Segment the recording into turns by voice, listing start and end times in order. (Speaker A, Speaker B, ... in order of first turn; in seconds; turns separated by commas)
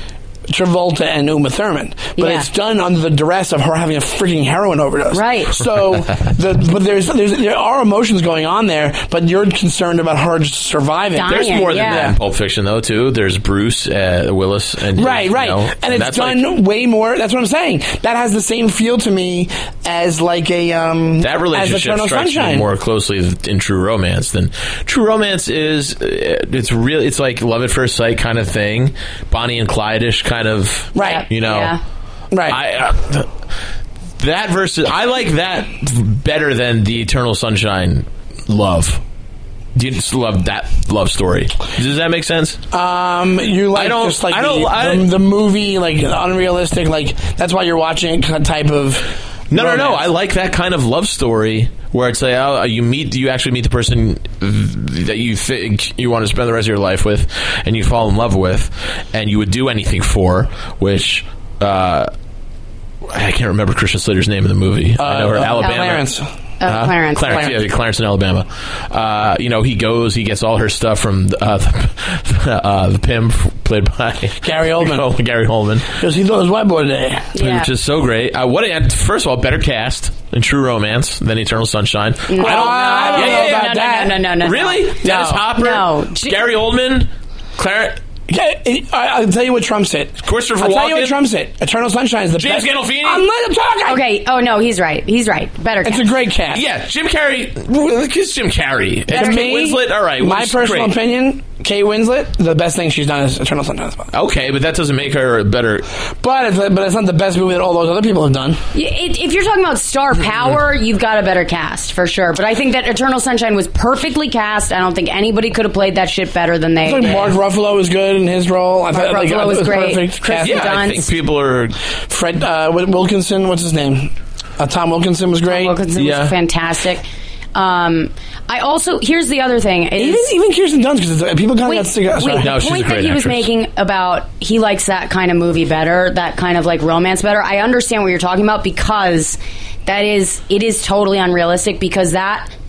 Speaker A: 0.5-12.2, Speaker B: 2.2-2.5, Speaker B: 5.1-5.6, Speaker B: 11.1-12.1, Speaker C: 11.2-16.4, Speaker A: 14.9-22.7, Speaker C: 21.2-31.7, Speaker A: 30.9-31.2, Speaker B: 31.0-31.8, Speaker A: 32.3-32.6, Speaker C: 32.5-33.3, Speaker C: 34.2-39.0, Speaker C: 39.8-42.6, Speaker A: 42.7-50.1, Speaker C: 43.7-45.1, Speaker C: 49.5-62.1, Speaker C: 63.1-66.1, Speaker A: 65.0-66.3, Speaker B: 66.6-67.5, Speaker C: 66.7-76.0, Speaker A: 67.3-67.6, Speaker A: 74.4-75.1, Speaker A: 76.0-77.3, Speaker B: 77.3-77.7, Speaker C: 77.4-83.7, Speaker B: 82.3-86.4, Speaker A: 82.4-84.2, Speaker C: 84.4-88.0, Speaker A: 85.0-85.4, Speaker A: 88.3-94.0, Speaker C: 90.2-91.2, Speaker C: 92.4-93.2, Speaker B: 93.9-96.1, Speaker A: 95.8-96.6, Speaker C: 96.5-100.9, Speaker A: 99.1-104.1, Speaker B: 99.1-99.5, Speaker C: 104.1-105.9, Speaker A: 106.2-108.6, Speaker B: 108.7-117.3, Speaker A: 116.8-120.7, Speaker B: 118.9-121.1, Speaker C: 120.4-121.8, Speaker A: 122.1-125.8, Speaker B: 125.5-130.3, Speaker C: 126.0-126.3, Speaker A: 130.0-132.5, Speaker B: 131.6-142.5, Speaker C: 132.4-133.5